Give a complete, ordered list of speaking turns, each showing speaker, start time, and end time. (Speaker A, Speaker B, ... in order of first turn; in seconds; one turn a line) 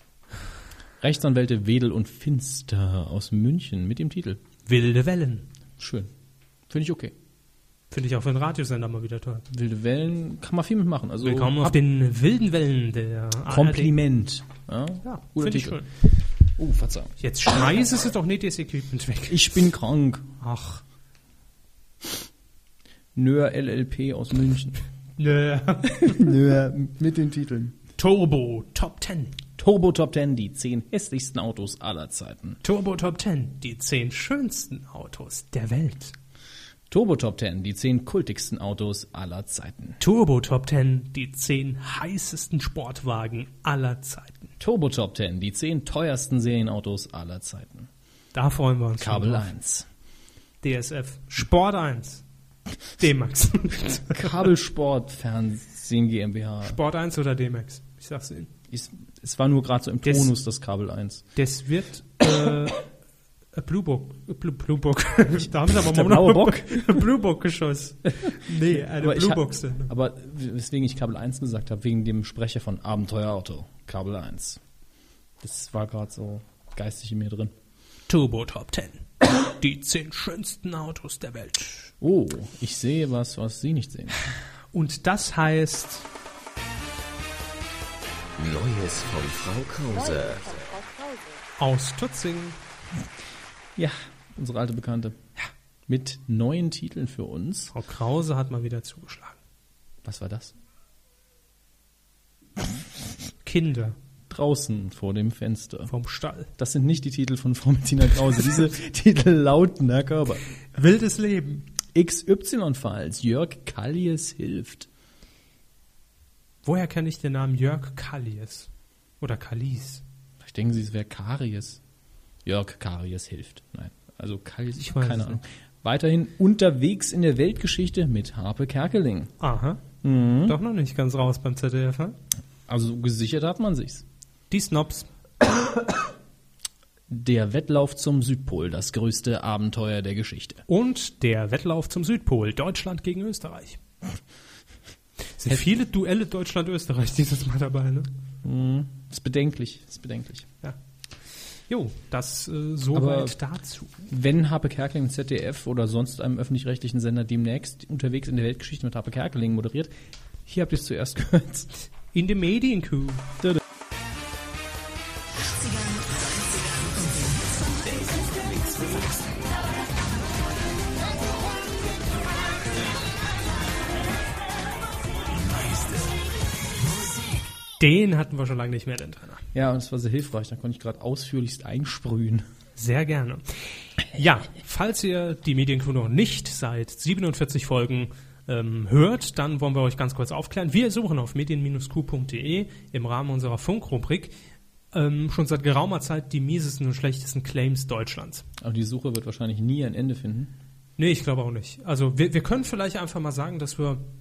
Speaker A: 1.0-4.4
Speaker B: 4.7-5.5
Speaker A: 5.8-6.1
Speaker A: 6.7-7.1
Speaker B: 7.9-9.4
Speaker A: 9.5-11.8
Speaker B: 11.2-13.9
Speaker A: 13.5-15.8
Speaker B: 15.0-15.9
Speaker A: 16.6-17.1
Speaker B: 17.2-19.6
Speaker A: 19.3-20.3
Speaker B: 20.4-20.8
Speaker A: 23.1-24.8
Speaker B: 25.2-26.3
Speaker A: 25.9-27.8
Speaker B: 28.0-29.4
Speaker A: 29.6-32.6
Speaker B: 32.6-36.1
Speaker A: 36.9-40.0
Speaker B: 40.0-44.5
Speaker A: 44.6-47.9
Speaker B: 48.3-49.5
Speaker A: 49.0-49.9
Speaker B: 50.6-52.2
Speaker B: 53.0-54.4
Speaker A: 54.1-56.8
Speaker B: 56.6-58.5
Speaker A: 58.7-61.2
Speaker B: 60.0-60.3
Speaker B: 61.4-62.9
Speaker B: 63.5-69.9
Speaker A: 65.7-67.0
Speaker A: 68.7-74.6
Speaker A: 75.4-77.5
Speaker B: 78.1-81.9
Speaker A: 82.0-84.2
Speaker B: 84.7-86.0
Speaker C: 88.4-90.7
Speaker B: 91.6-92.6
Speaker A: 93.8-95.2
Speaker A: 95.9-97.7
Speaker B: 97.7-99.4
Speaker A: 100.0-100.5
Speaker B: 103.4-104.0
Speaker A: 104.3-105.9
Speaker B: 105.9-106.5
Speaker A: 106.6-110.4
Speaker B: 110.7-111.7
Speaker A: 111.9-114.9
Speaker B: 116.6-118.7
Speaker B: 119.2-120.0
Speaker A: 120.4-121.8
Speaker A: 122.4-129.3
Speaker B: 124.8-125.4
Speaker B: 129.4-129.8
Speaker A: 130.0-130.6
Speaker B: 130.4-132.1
Speaker A: 132.7-134.0
Speaker B: 134.5-135.1
Speaker A: 137.1-140.6
Speaker B: 140.7-143.8
Speaker B: 145.4-148.1
Speaker A: 148.4-150.5
Speaker B: 151.7-154.0
Speaker A: 152.9-153.3
Speaker A: 154.1-161.7
Speaker B: 162.1-163.3
Speaker C: 165.6-169.5
Speaker C: 175.4-176.1
Speaker B: 177.8-179.4
Speaker A: 179.5-182.4
Speaker B: 182.8-194.3
Speaker B: 194.9-198.4
Speaker A: 198.6-200.5
Speaker B: 201.0-204.0